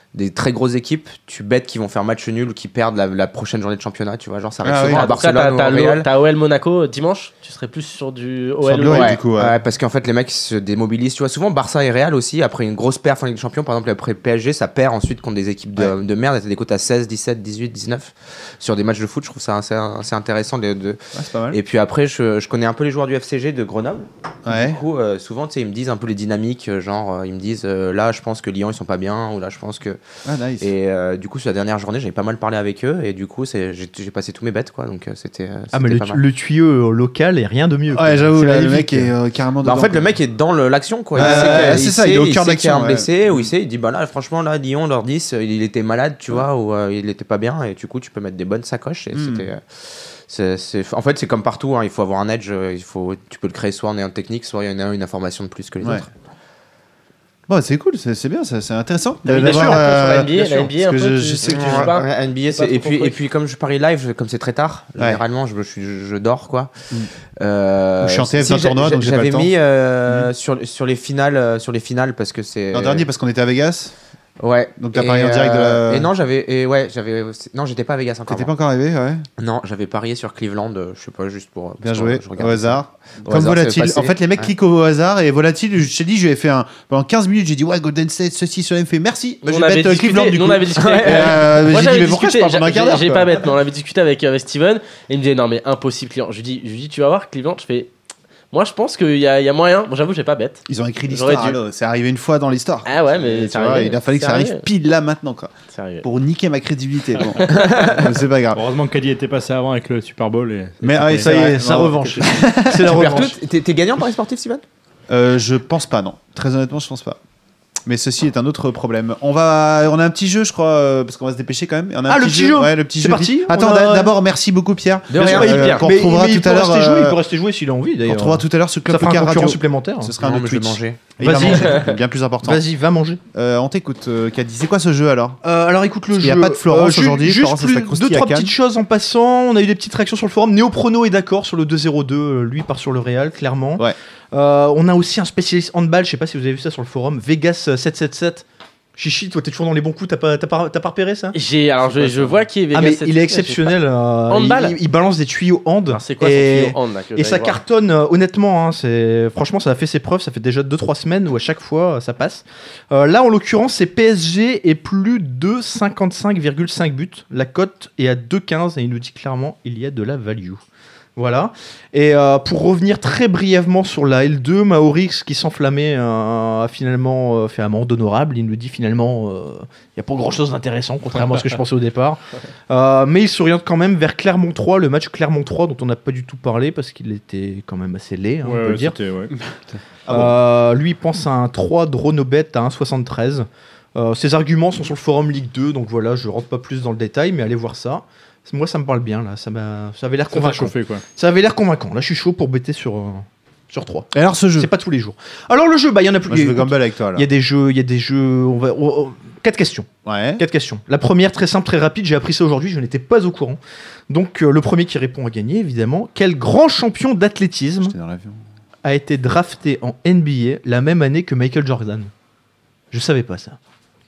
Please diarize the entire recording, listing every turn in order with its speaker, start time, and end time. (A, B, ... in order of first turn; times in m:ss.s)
0:00.1-0:06.1 A
0:04.6-0:05.1 B
0:04.9-0:09.2 C
0:08.6-0:09.6 B
0:08.9-0:21.0 A
0:21.1-0:21.6 B
0:21.5-0:30.0 A
0:24.5-0:24.8 B
0:30.2-0:30.7 B
0:30.6-0:36.2 A
0:35.7-0:39.1 D
0:37.9-0:40.1 B
0:39.6-0:56.1 A
0:41.2-0:43.5 B
0:41.2-0:41.7 D
0:49.2-0:49.4 B
0:57.5-1:02.0 B
0:59.3-1:03.2 C
0:59.4-1:00.4 A
1:01.4-1:06.9 A
1:07.4-1:13.1 A
1:08.0-1:09.5 B
1:12.7-1:13.9 B
1:14.4-1:18.5 A
1:14.8-1:16.1 B
1:18.3-1:19.2 B
1:19.4-1:24.5 A
1:21.8-1:33.4 B
1:29.4-1:37.9 C
1:30.8-1:31.4 A
1:38.5-1:41.6 C
1:40.7-1:48.6 B
1:42.8-1:44.7 C
1:45.7-1:46.0 C
1:47.5-1:47.9 C
1:48.6-1:51.3 E
1:50.8-1:53.3 B
1:51.1-1:53.4 D
1:52.8-1:54.6 A
1:55.1-1:57.2 B
1:57.9-2:07.2 B
2:02.1-2:04.1 D
2:05.1-2:05.9 A
2:05.1-2:10.2 D
2:08.1-2:12.6 B
2:10.2-2:11.8 A
2:11.2-2:11.9 D
2:12.4-2:13.2 D
2:13.3-2:15.4 B
2:15.4-2:28.4 D
2:16.1-2:18.5 B
2:29.0-2:31.4 D
2:31.3-2:33.8 C
2:32.7-2:50.6 D
2:34.3-2:34.8 C
2:35.9-2:37.6 C
2:51.2-3:09.0 D
3:08.4-3:09.3 E
3:10.1-3:10.4 B
3:10.1-3:38.0 D
3:20.3-3:21.0 E
3:24.1-3:24.7 B
3:26.3-3:27.3 B
3:30.1-3:30.4 B
3:37.8-3:38.4 B
3:38.8-3:42.1 D
3:42.9-3:43.6 D